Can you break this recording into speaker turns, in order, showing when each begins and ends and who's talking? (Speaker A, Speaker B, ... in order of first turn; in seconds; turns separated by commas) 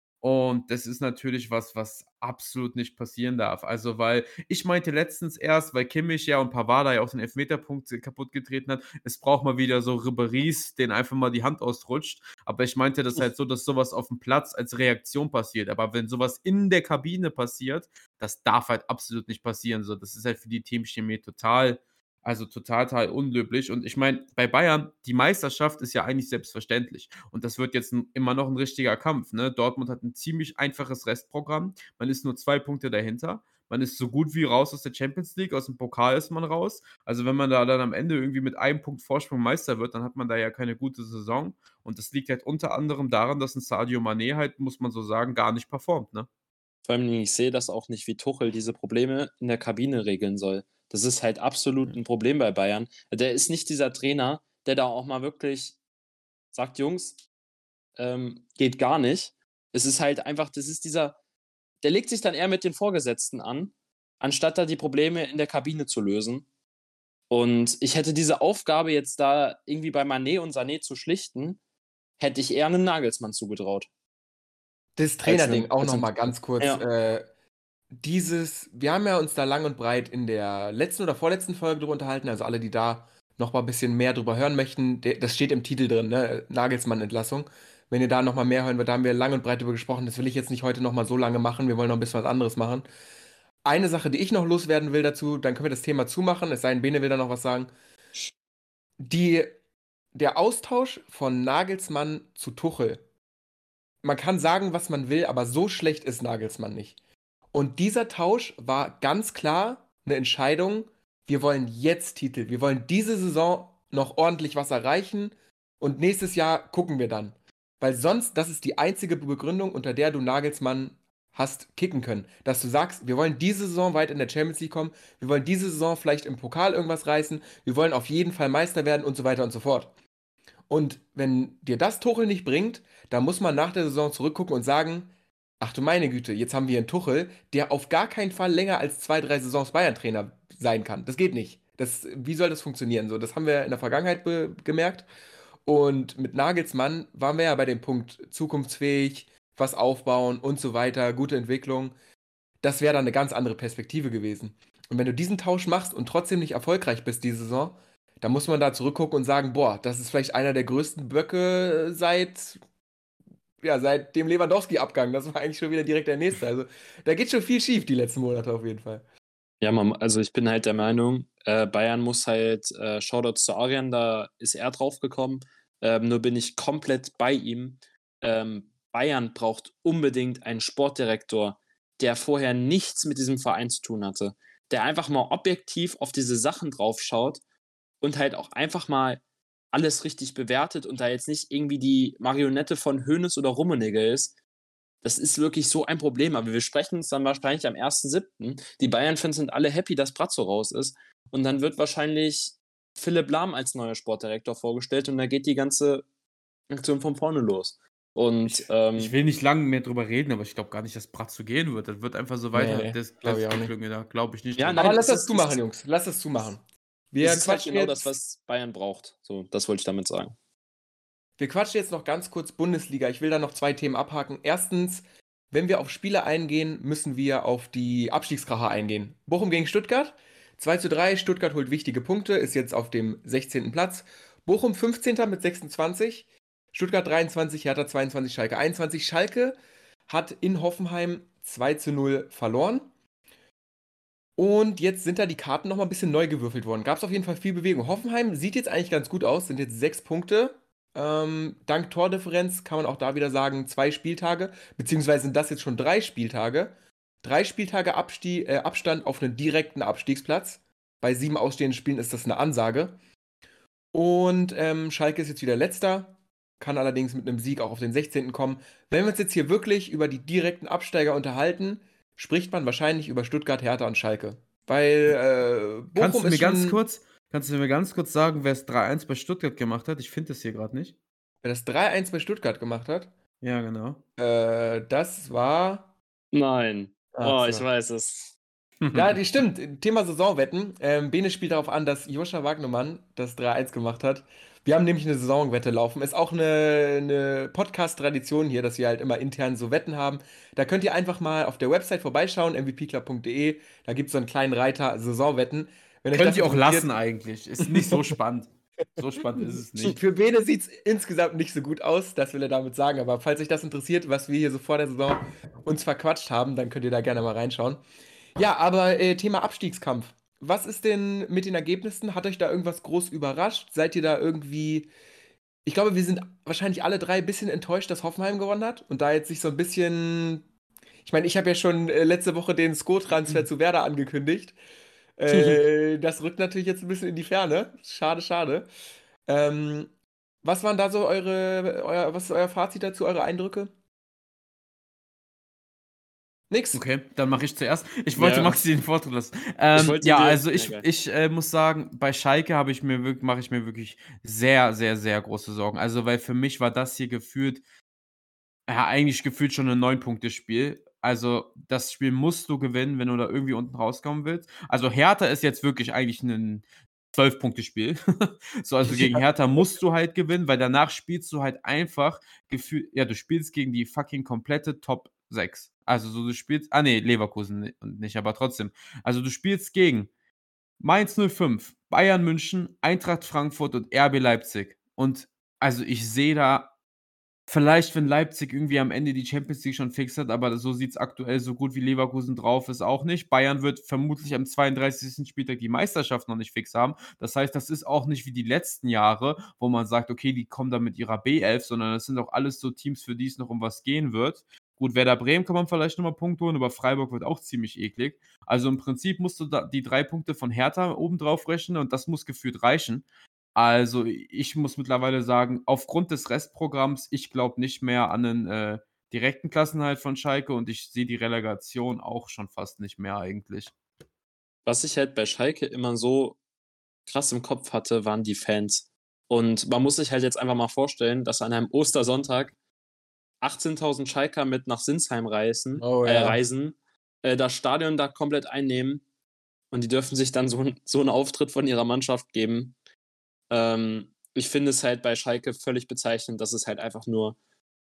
Speaker A: 0.2-46.3, Speaker B: 46.9-55.8, Speaker B: 56.5-57.1, Speaker B: 58.0-61.1, Speaker B: 61.8-66.5, Speaker B: 67.3-71.6, Speaker B: 72.2-73.9, Speaker C: 75.0-77.3, Speaker B: 75.2-76.8, Speaker C: 78.0-92.8, Speaker C: 93.6-97.7, Speaker C: 99.0-99.5, Speaker C: 100.1-103.0, Speaker C: 104.0-107.0, Speaker C: 107.5-129.9, Speaker C: 130.7-145.1, Speaker C: 145.6-151.9, Speaker C: 152.6-162.6, Speaker C: 163.6-169.0, Speaker B: 169.6-187.4, Speaker B: 188.0-189.2, Speaker B: 189.7-194.3, Speaker B: 195.0-206.0, Speaker B: 206.7-209.1, Speaker A: 208.9-215.0, Speaker C: 212.5-213.7, Speaker B: 214.6-215.6, Speaker C: 214.8-218.1, Speaker B: 217.2-220.3, Speaker C: 221.4-239.6, Speaker C: 240.1-242.9, Speaker C: 244.4-263.0, Speaker C: 263.9-276.8, Speaker A: 275.9-280.9, Speaker C: 281.4-283.1, Speaker A: 283.4-284.0, Speaker C: 284.2-285.9, Speaker B: 286.3-288.4, Speaker C: 287.1-287.6, Speaker A: 288.8-289.2, Speaker C: 288.9-306.9, Speaker A: 306.1-310.0, Speaker C: 307.6-308.1, Speaker C: 309.3-317.8, Speaker C: 318.4-324.9, Speaker C: 325.6-330.4, Speaker C: 331.0-334.6, Speaker C: 335.2-338.7, Speaker B: 335.3-335.6, Speaker C: 339.2-339.9, Speaker C: 340.4-343.7, Speaker C: 346.5-346.8, Speaker A: 346.7-357.6, Speaker B: 348.2-348.5, Speaker B: 349.7-350.9, Speaker A: 358.7-380.1, Speaker C: 368.9-369.2, Speaker A: 380.8-386.7, Speaker A: 387.5-423.7, Speaker B: 424.6-426.4, Speaker B: 427.1-432.6, Speaker B: 433.4-439.0, Speaker C: 435.8-436.4, Speaker B: 439.7-442.7, Speaker B: 443.5-447.4